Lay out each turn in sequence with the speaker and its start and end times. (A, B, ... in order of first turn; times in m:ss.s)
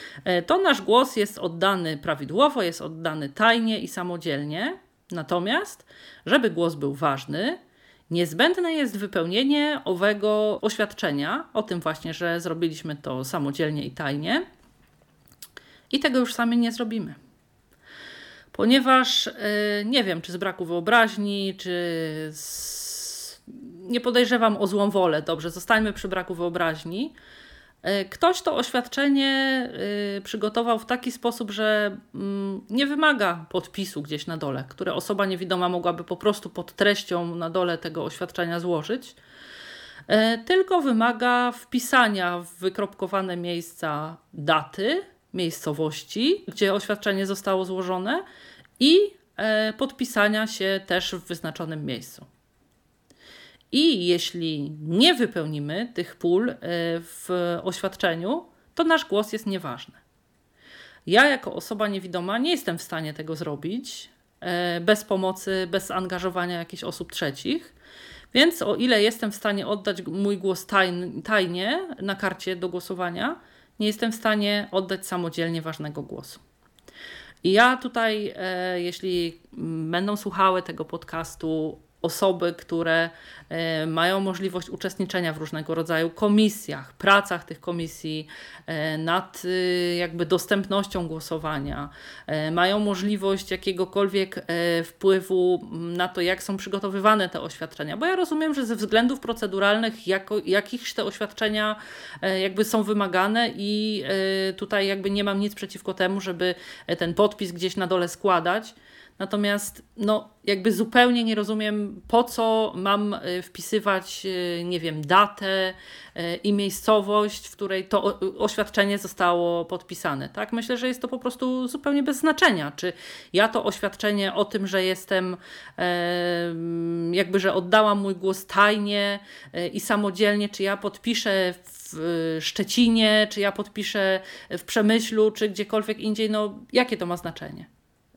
0:00.2-0:07.6 A
0:08.1-0:14.4 A
0:15.9-0:17.2 A
0:18.5-0:27.1 A
0:27.8-0:39.2 A
0:40.1-0:48.2 A
0:48.8-0:52.2 A
0:53.7-1:00.0 A
1:01.0-1:07.7 A
1:08.3-1:16.4 A
1:17.4-2:17.7 A